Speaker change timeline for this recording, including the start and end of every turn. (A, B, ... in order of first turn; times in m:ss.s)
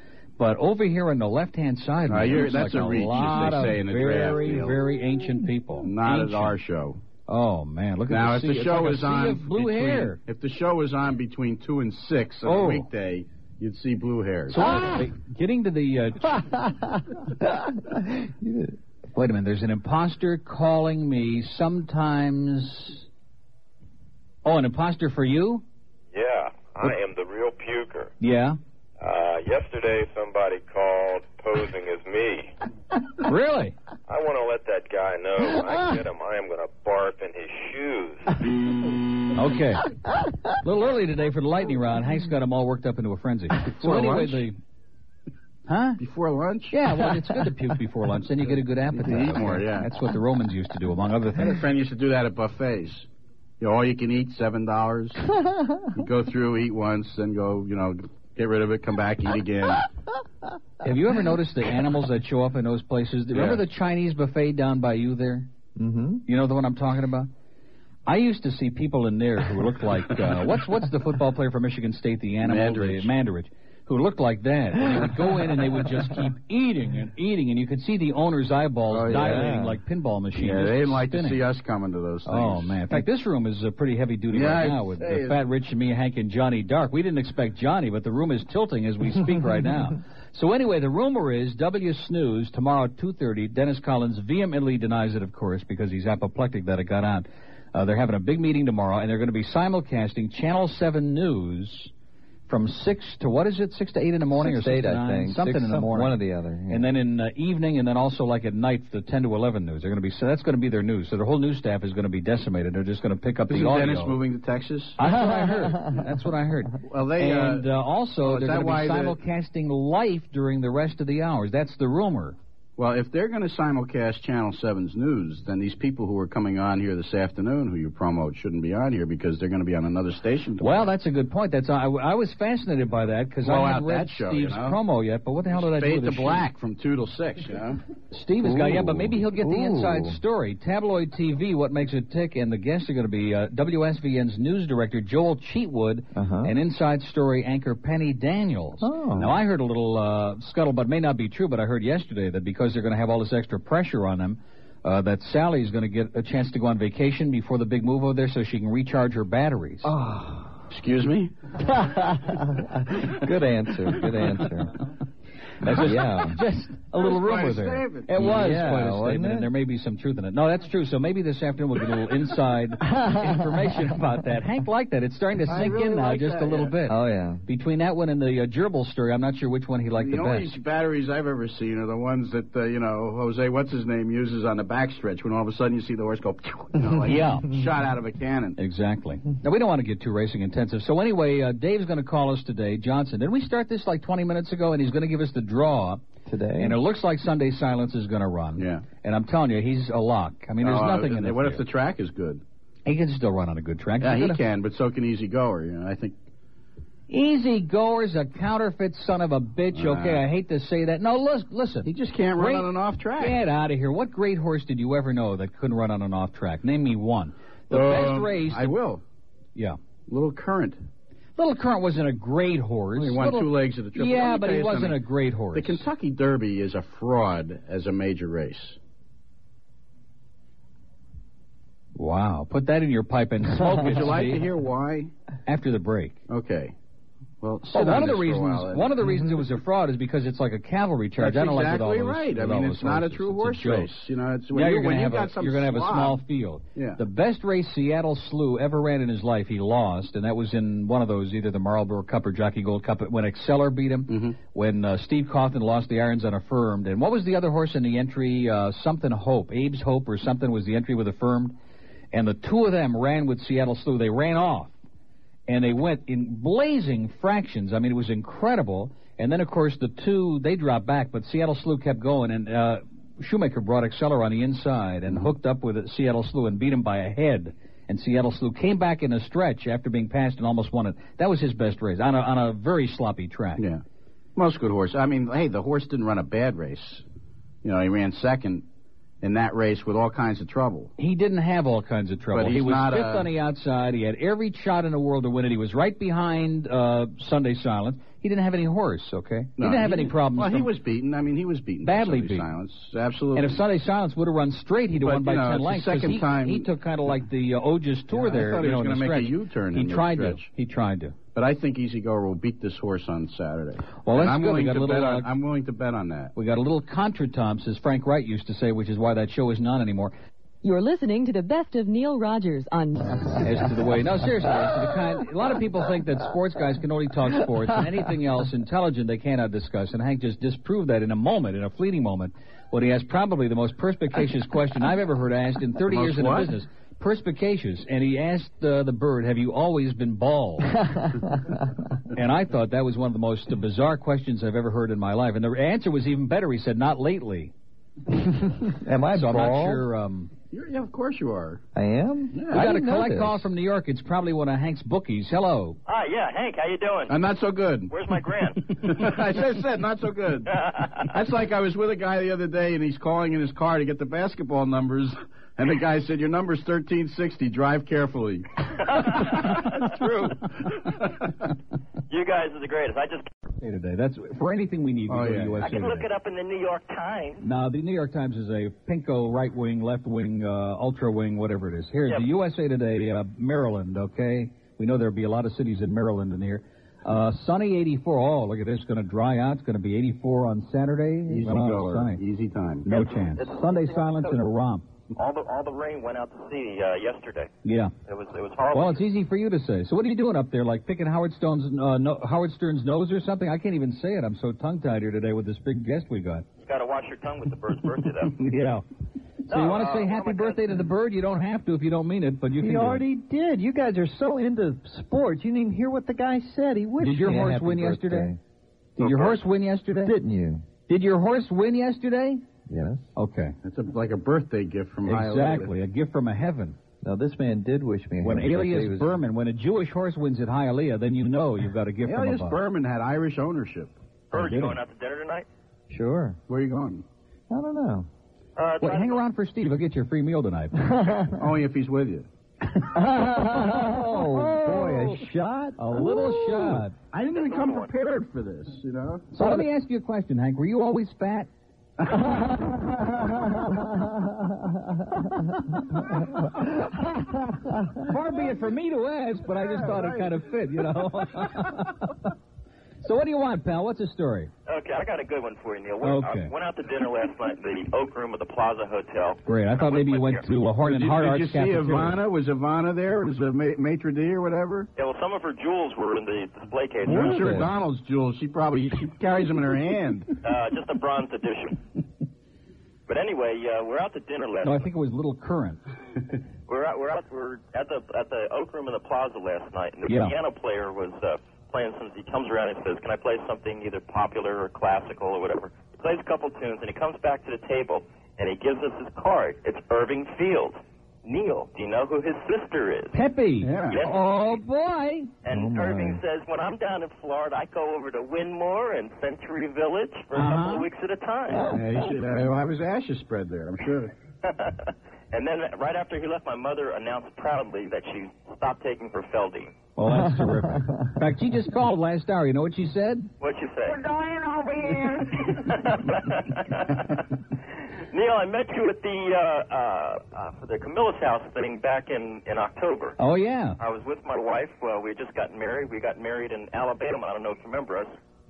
0:00.4-0:06.6 A
0:02.1-0:04.8 B
0:05.8-0:07.0 B
0:07.3-0:10.2 A
0:08.1-0:14.9 B
0:12.4-0:12.8 A
0:14.5-0:16.6 A
0:14.6-0:15.0 C
0:16.5-0:18.7 C
0:19.1-0:23.0 A
0:24.4-0:25.6 A
0:26.1-0:28.1 D
0:28.2-0:28.6 A
0:29.0-0:32.5 D
0:33.2-0:33.7 A
0:34.1-0:38.3 D
0:39.3-0:39.8 A
0:40.6-0:44.6 A
0:43.6-0:44.4 B
0:45.7-0:46.0 A
0:46.0-0:46.8 B
0:46.7-0:51.6 A
0:48.9-0:49.9 B
0:51.4-0:53.1 B
0:53.6-0:55.2 B
0:55.9-0:59.9 B
1:00.8-1:05.5 A
1:03.3-1:03.6 B
1:05.8-1:06.2 C
1:06.3-1:07.3 A
1:08.0-1:21.4 A
1:12.4-1:13.1 B
1:18.9-1:19.5 B
1:19.1-1:19.8 C
1:20.4-1:22.8 B
1:22.2-1:41.9 A
1:24.3-1:25.4 B
1:42.5-1:54.2 A
1:44.3-1:46.9 C
1:53.5-1:55.0 B
1:55.0-2:02.4 A
1:55.1-1:56.0 C
1:56.9-1:57.7 B
1:58.2-1:59.2 B
2:02.8-2:10.9 B
2:10.6-2:16.4 A
2:13.4-2:14.8 B
2:15.5-2:17.8 B
2:18.1-2:39.9 A
2:18.4-2:20.2 C
2:26.1-2:26.5 C
2:28.8-2:29.4 C
2:39.8-2:40.6 C
2:40.7-2:41.3 B
2:41.7-2:44.7 C
2:45.6-3:00.5 A
2:45.6-2:46.4 C
2:47.0-2:48.5 B
2:48.2-2:49.5 C
2:53.0-2:53.3 C
2:55.5-2:56.7 B
2:56.9-2:57.4 C
3:00.0-3:08.6 B
3:07.0-3:07.5 A
3:08.6-3:16.0 A
3:16.2-3:16.8 C
3:16.6-3:21.6 A
3:18.6-3:18.8 B
3:20.6-3:22.4 B
3:22.8-3:24.4 A
3:24.0-3:26.1 B
3:27.1-3:38.7 A
3:29.7-3:30.2 B
3:31.8-3:33.4 B
3:37.7-3:39.0 B
3:40.1-3:40.8 B
3:41.4-3:45.8 A
3:43.0-3:45.0 B
3:45.5-3:48.8 B
3:52.0-3:54.4 A
3:53.6-3:55.1 B
3:55.4-3:56.2 A
3:56.3-3:56.7 B
3:57.4-3:59.2 B
3:57.7-4:03.9 A
4:01.2-4:06.2 B
4:04.5-4:21.5 A
4:06.7-4:07.0 B
4:14.1-4:14.4 B
4:22.1-4:24.7 A
4:25.5-4:43.6 A
4:43.6-4:43.8 B
4:44.4-4:47.0 B
4:47.6-4:48.6 B
4:49.2-4:50.9 B
4:51.0-5:00.7 A
4:52.3-4:53.3 B
4:59.6-5:03.6 B
5:01.8-5:02.5 A
5:03.3-5:11.2 A
5:05.0-5:06.7 B
5:08.1-5:10.5 B
5:11.3-5:16.3 B
5:14.0-5:15.3 A
5:16.3-5:20.1 A
5:20.6-5:23.1 E
5:23.4-5:40.8 A
5:35.9-5:36.5 B
5:40.9-5:41.5 C
5:42.1-5:47.5 A
5:48.5-5:49.8 C
5:49.1-5:50.3 A
5:50.5-5:51.6 B
5:51.7-5:53.5 C
5:52.3-5:52.7 B
5:52.5-5:55.8 A
5:55.8-5:57.1 F
5:57.1-5:58.0 B
5:57.9-5:58.6 F
5:58.7-6:08.5 B
6:00.7-6:01.0 F
6:08.9-6:09.7 F
6:09.8-6:10.3 A
6:12.1-6:13.3 F
6:13.6-6:16.1 A
6:15.1-6:15.7 B
6:15.6-6:17.4 F
6:17.4-6:32.2 A
6:31.3-6:32.9 B
6:32.8-6:34.8 A
6:32.9-6:34.3 F
6:35.1-6:37.5 F
6:37.6-6:37.9 A
6:38.0-6:39.0 F
6:38.7-6:46.4 A
6:46.6-6:48.3 F
6:48.4-6:48.8 A
6:49.5-6:50.7 F
6:49.5-6:53.0 A
6:52.6-6:58.4 C
6:57.0-6:58.3 A
6:59.0-7:00.1 A
7:00.0-7:00.6 C
7:00.9-7:02.4 A
7:02.7-7:03.0 C
7:03.2-7:03.5 A
7:03.6-7:05.7 B
7:05.0-7:06.8 A
7:07.0-7:09.2 C
7:08.2-7:12.6 A
7:12.0-7:13.9 B
7:14.3-7:14.8 A
7:14.3-7:15.4 F
7:15.9-7:16.4 C
7:16.5-7:17.0 B
7:17.5-7:18.1 C
7:18.6-7:19.2 F
7:18.8-7:20.8 A
7:21.0-7:21.3 C
7:21.3-7:22.3 B
7:22.9-7:26.8 C
7:23.0-7:25.2 A
7:25.8-7:26.9 A
7:27.1-7:29.3 B
7:27.3-7:27.9 F
7:29.3-7:31.5 A
7:32.1-7:32.6 B
7:38.0-7:42.1 A
7:39.9-7:40.3 B
7:43.0-7:44.5 A
7:44.7-7:50.4 F
7:46.0-7:46.5 A
7:49.4-7:52.2 A
7:50.8-7:54.9 B
7:55.0-7:57.6 F
7:57.0-8:00.3 B
7:57.0-7:57.7 A
8:00.4-8:01.8 F
8:03.1-8:04.8 F
8:04.6-8:05.8 A
8:06.7-8:23.1 F
8:10.1-8:10.3 A
8:23.1-8:25.3 A
8:23.6-8:24.0 B
8:23.9-8:24.6 F
8:25.4-8:31.7 F
8:25.5-8:26.2 C
8:30.3-8:30.9 A
8:31.7-8:34.1 B
8:34.4-8:39.8 F
8:40.0-8:43.3 A
8:40.1-8:41.1 C
8:43.4-8:44.2 F
8:45.4-8:47.2 F
8:48.1-8:53.1 F
8:53.2-8:53.8 A
8:53.8-8:58.1 F